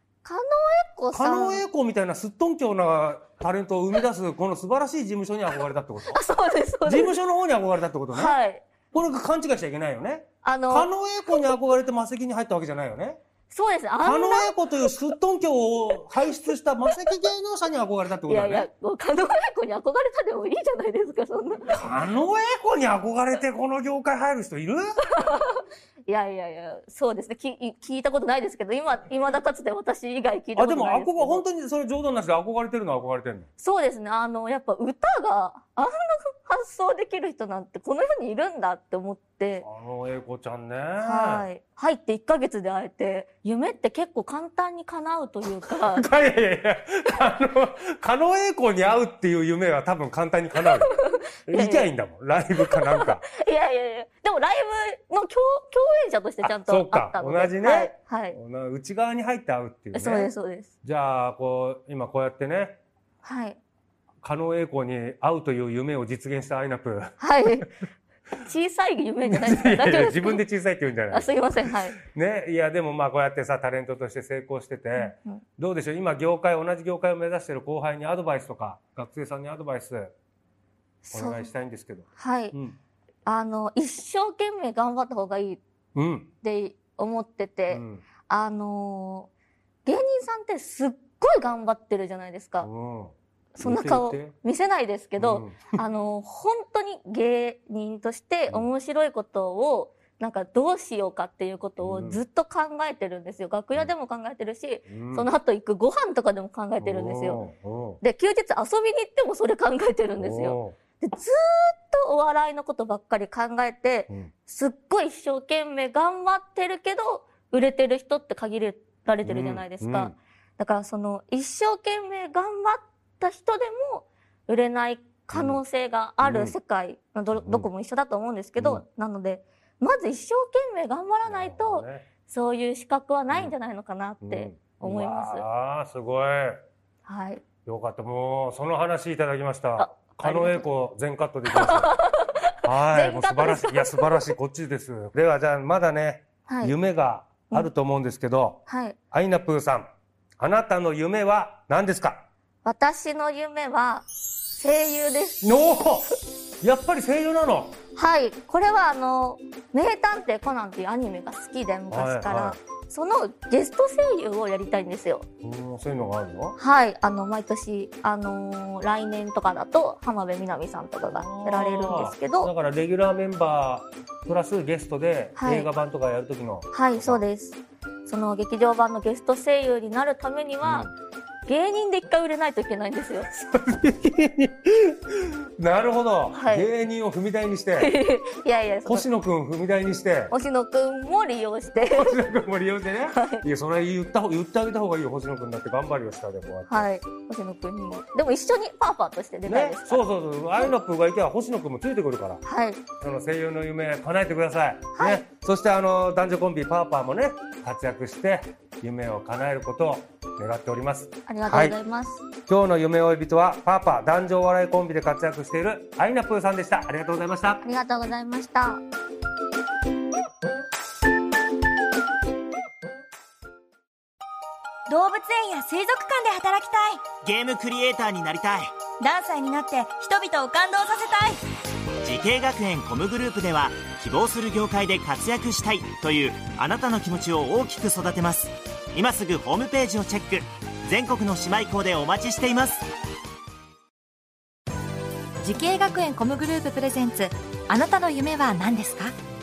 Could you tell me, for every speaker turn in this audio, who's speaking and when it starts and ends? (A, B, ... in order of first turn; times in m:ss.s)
0:00.2-0:01.6 A
0:01.1-0:06.2 B
0:06.1-0:07.2 A
0:06.9-0:08.4 B
0:08.1-0:08.6 A
0:08.9-0:13.2 B
0:10.4-0:11.5 A
0:13.5-0:15.0 A
0:14.0-0:18.7 B
0:18.3-0:21.8 A
0:21.7-0:25.0 B
0:25.1-0:31.4 A
0:30.6-0:33.5 B
0:33.6-0:39.7 A
0:39.6-0:41.5 B
0:41.0-0:46.1 A
0:45.5-0:50.9 B
0:50.6-0:51.9 A
0:51.5-0:53.2 B
0:52.6-0:58.4 A
0:56.4-1:00.3 B
0:59.9-1:00.7 A
1:00.8-1:02.8 B
1:03.2-1:03.6 A
1:04.2-1:07.6 B
1:07.2-1:07.7 A
1:08.4-1:10.4 A
1:09.3-1:20.1 B
1:11.1-1:12.0 A
1:15.0-1:15.4 A
1:21.0-1:21.5 A
1:21.1-1:22.8 B
1:22.2-1:22.6 A
1:23.2-1:25.6 A
1:26.0-1:26.3 B
1:26.4-1:29.3 A
1:27.7-1:28.0 B
1:29.8-1:32.7 A
1:32.6-1:34.3 B
1:33.6-1:47.4 A
1:35.2-1:35.8 B
1:41.8-1:42.2 B
1:44.9-1:45.3 B
1:46.8-1:48.0 B
1:48.0-2:15.5 A
1:50.2-1:50.8 B
1:59.2-2:00.2 B
2:05.3-2:05.6 B
2:06.2-2:06.6 B
2:07.3-2:07.7 B
2:08.6-2:08.8 B
2:11.2-2:12.1 B
2:14.2-2:16.6 B
2:17.0-2:17.4 A
2:17.7-2:22.0 B
2:19.8-2:20.7 A
2:21.5-2:24.3 A
2:22.6-2:28.6 B
2:26.5-2:26.8 A
2:28.7-2:29.0 A
2:29.1-2:29.9 B
2:30.4-2:32.2 B
2:32.6-2:35.5 A
2:35.4-2:37.8 B
2:38.0-2:45.3 A
2:41.9-2:42.6 B
2:45.4-2:46.6 B
2:46.6-2:52.5 A
2:51.0-2:57.2 B
2:55.4-2:55.7 A
2:56.7-3:00.9 A
3:00.6-3:00.9 B
3:01.5-3:03.3 A
3:03.3-3:08.0 B
3:06.3-3:06.7 A
3:07.8-3:09.1 A
3:08.8-3:10.3 B
3:10.3-3:12.2 A
3:11.8-3:16.9 B
3:13.1-3:13.4 A
3:16.7-3:20.7 A
3:19.5-3:22.4 B
3:22.4-3:22.8 A
3:23.0-3:31.8 B
3:25.0-3:25.2 A
3:31.3-3:32.2 A
3:32.5-3:37.6 B
3:37.6-3:38.8 A
3:44.9-3:47.0 C
3:47.2-3:48.8 D
3:49.0-3:51.4 C
3:52.0-4:02.9 D
4:05.4-4:09.1 E